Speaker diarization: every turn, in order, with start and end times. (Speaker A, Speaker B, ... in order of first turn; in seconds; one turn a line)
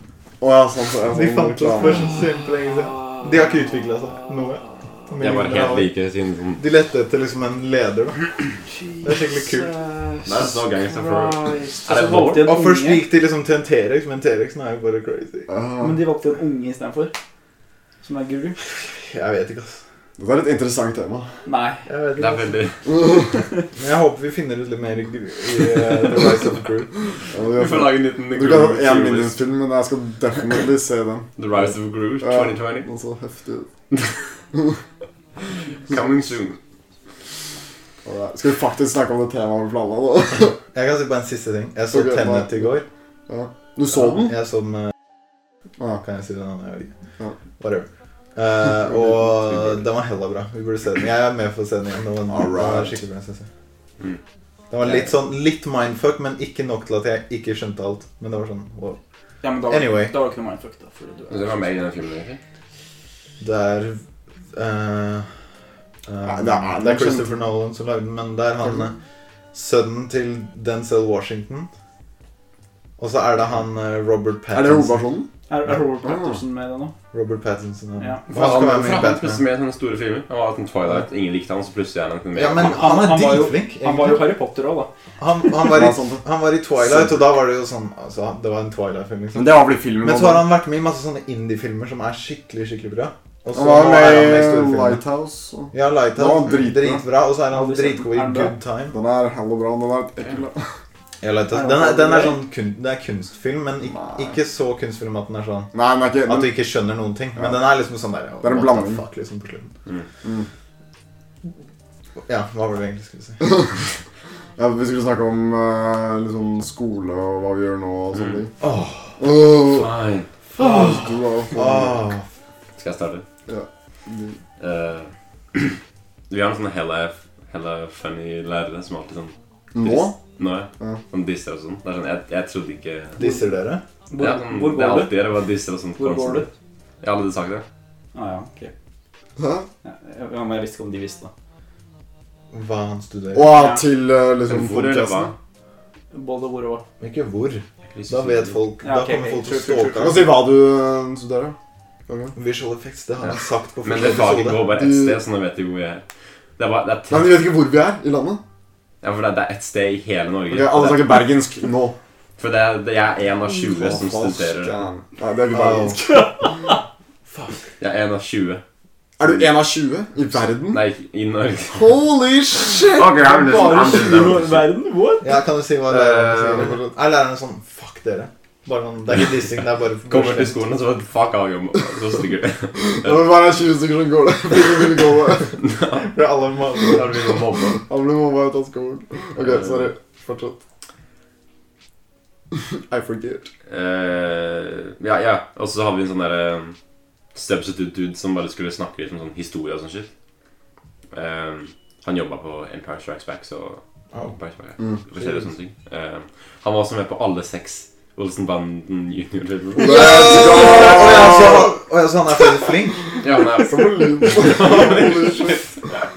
Speaker A: 0.4-2.2
Speaker B: 1.1-5.9
Speaker C: 2.1-4.2
Speaker C: 5.2-6.6
Speaker B: 6.6-8.2
Speaker D: 8.9-13.0
Speaker B: 9.0-9.7
Speaker C: 10.2-12.5
Speaker B: 12.4-15.5
Speaker A: 15.5-16.0
Speaker D: 15.8-17.1
Speaker D: 18.0-18.6
Speaker B: 18.7-19.8
Speaker A: 20.2-21.3
Speaker D: 21.5-21.9
Speaker B: 21.9-22.6
Speaker C: 22.2-22.8
Speaker A: 22.9-23.4
Speaker B: 23.8-26.9
Speaker A: 27.3-31.3
Speaker C: 27.6-29.4
Speaker C: 31.4-32.9
Speaker A: 32.2-33.7
Speaker A: 34.5-34.8
Speaker C: 35.9-36.6
Speaker A: 38.0-40.6
Speaker B: 40.7-42.9
Speaker A: 41.9-42.7
Speaker A: 43.3-44.3
Speaker B: 43.9-44.9
Speaker B: 46.0-46.9
Speaker B: 47.6-53.5
Speaker A: 48.9-49.5
Speaker A: 52.3-53.0
Speaker B: 54.7-59.0
Speaker D: 59.4-61.7
Speaker B: 59.7-60.1
Speaker C: 61.3-62.4
Speaker B: 63.4-64.0
Speaker B: 64.5-65.3
Speaker B: 66.1-69.0
Speaker A: 66.2-67.3
Speaker B: 69.5-71.7
Speaker B: 73.0-75.0
Speaker A: 74.5-75.3
Speaker D: 75.5-76.9
Speaker A: 76.0-76.4
Speaker B: 77.1-79.4
Speaker D: 78.0-78.2
Speaker C: 78.3-82.9
Speaker B: 82.3-84.3
Speaker D: 82.6-84.9
Speaker B: 85.2-95.0
Speaker A: 85.6-86.2
Speaker A: 86.8-87.2
Speaker A: 89.3-90.5
Speaker A: 93.5-97.0
Speaker B: 95.7-99.0
Speaker D: 97.5-98.5
Speaker A: 98.9-100.7
Speaker B: 101.2-105.7
Speaker D: 101.5-102.4
Speaker A: 103.9-104.3
Speaker A: 105.7-106.5
Speaker B: 106.2-109.7
Speaker A: 108.4-109.0
Speaker B: 112.2-113.6
Speaker A: 114.6-118.5
Speaker C: 118.1-118.4
Speaker B: 118.6-119.2
Speaker A: 119.2-119.9
Speaker C: 119.7-120.3
Speaker A: 120.6-122.1
Speaker B: 120.6-122.2
Speaker C: 122.8-123.2
Speaker A: 123.5-124.4
Speaker C: 124.6-125.8
Speaker C: 126.3-133.2
Speaker A: 129.8-130.2
Speaker B: 133.2-133.8
Speaker D: 134.1-135.2
Speaker C: 134.2-136.5
Speaker D: 136.0-136.5
Speaker C: 137.0-137.7
Speaker D: 138.1-138.7
Speaker A: 139.4-139.7
Speaker D: 139.8-141.3
Speaker B: 142.5-143.5
Speaker A: 143.3-145.3
Speaker D: 143.5-143.8
Speaker C: 144.5-145.3
Speaker D: 146.1-146.8
Speaker B: 147.0-150.3
Speaker C: 147.9-148.6
Speaker D: 148.8-150.2
Speaker A: 150.0-151.6
Speaker A: 152.1-152.3
Speaker B: 152.3-154.6
Speaker C: 153.2-156.0
Speaker A: 154.6-155.2
Speaker C: 156.6-157.4
Speaker A: 157.1-158.4
Speaker C: 159.0-161.2
Speaker A: 160.5-162.0
Speaker C: 162.4-164.8
Speaker A: 163.6-166.2
Speaker B: 165.5-166.0
Speaker D: 166.0-166.8
Speaker B: 167.3-167.7
Speaker C: 167.8-168.6
Speaker A: 169.2-170.8
Speaker C: 170.7-172.0
Speaker A: 171.7-173.7
Speaker C: 172.7-174.7
Speaker D: 173.2-175.3
Speaker B: 175.2-180.6
Speaker C: 175.9-176.8
Speaker A: 176.5-176.8
Speaker C: 179.1-179.5
Speaker C: 180.1-183.3
Speaker A: 182.8-185.6
Speaker C: 185.6-186.1
Speaker B: 185.9-187.4
Speaker C: 186.8-187.8
Speaker A: 187.9-190.6
Speaker C: 189.4-189.9
Speaker A: 192.5-193.5
Speaker C: 193.7-196.8
Speaker C: 197.3-200.1
Speaker C: 201.1-210.3
Speaker A: 209.8-211.8
Speaker B: 209.8-213.0
Speaker C: 213.2-215.7
Speaker A: 213.6-215.7